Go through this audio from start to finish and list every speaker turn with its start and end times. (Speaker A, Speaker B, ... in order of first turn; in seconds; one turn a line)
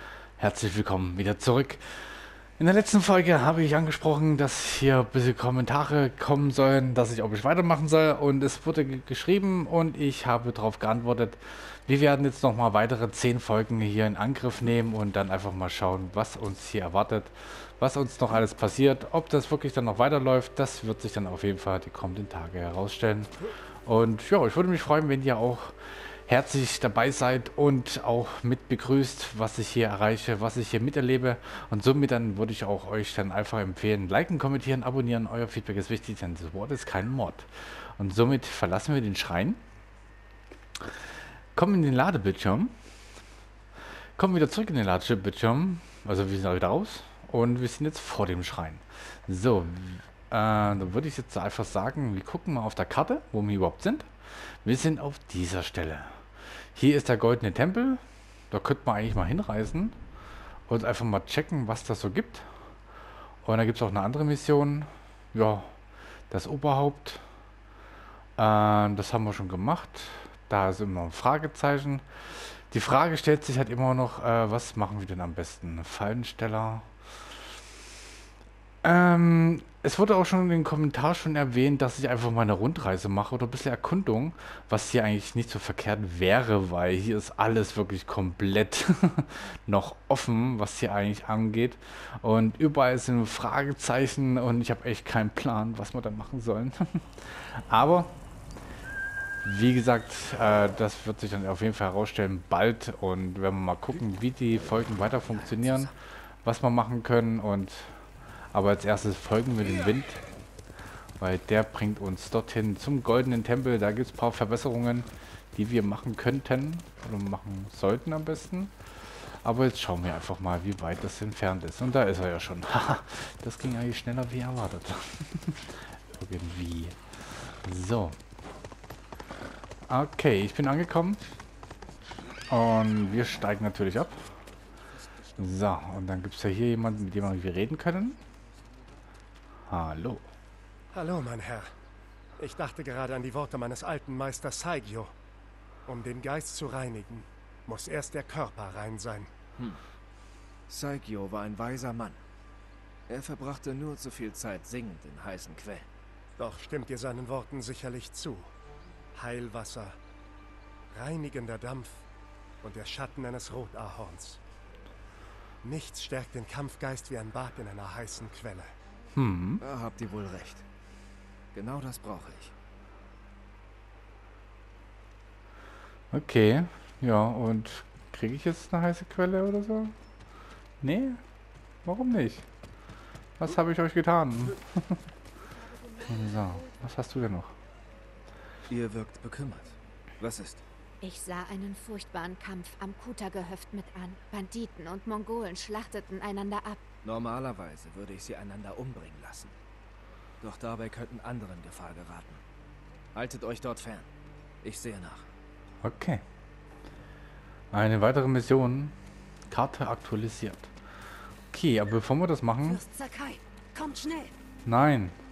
Speaker A: 0.4-23.3
Speaker A: 23.9-39.6
Speaker A: 40.8-42.7
Speaker A: 44.2-54.1
Speaker A: 54.6-56.2
Speaker A: 56.8-60.0
Speaker A: 60.7-62.5
Speaker A: 63.4-65.8
Speaker A: 66.3-67.2
Speaker A: 68.4-76.9
Speaker A: 78.8-98.2
Speaker A: 99.4-108.0
Speaker B: 105.4-105.9
Speaker A: 108.5-110.2
Speaker A: 111.2-128.2
Speaker A: 129.9-131.2
Speaker A: 132.5-134.3
Speaker A: 135.4-138.2
Speaker A: 139.7-140.3
Speaker C: 140.9-141.8
Speaker C: 142.4-145.1
Speaker C: 145.9-149.3
Speaker B: 150.7-152.2
Speaker B: 153.1-155.9
Speaker C: 156.4-158.5
Speaker C: 159.1-160.0
Speaker C: 160.9-162.1
Speaker C: 162.6-164.4
Speaker C: 165.6-168.7
Speaker A: 169.2-169.6
Speaker B: 169.6-170.7
Speaker B: 171.5-172.6
Speaker A: 176.1-179.9
Speaker A: 180.8-181.2
Speaker A: 181.8-182.5
Speaker A: 183.4-185.0
Speaker D: 185.8-186.4
Speaker A: 186.0-187.6
Speaker B: 188.7-190.6
Speaker D: 191.0-196.8
Speaker B: 197.0-199.6
Speaker B: 200.4-202.4
Speaker B: 203.1-204.1
Speaker B: 204.6-205.3
Speaker A: 205.8-206.2
Speaker A: 207.7-208.9
Speaker A: 209.5-210.7
Speaker A: 211.5-212.8
Speaker D: 212.6-214.3
Speaker A: 214.7-215.2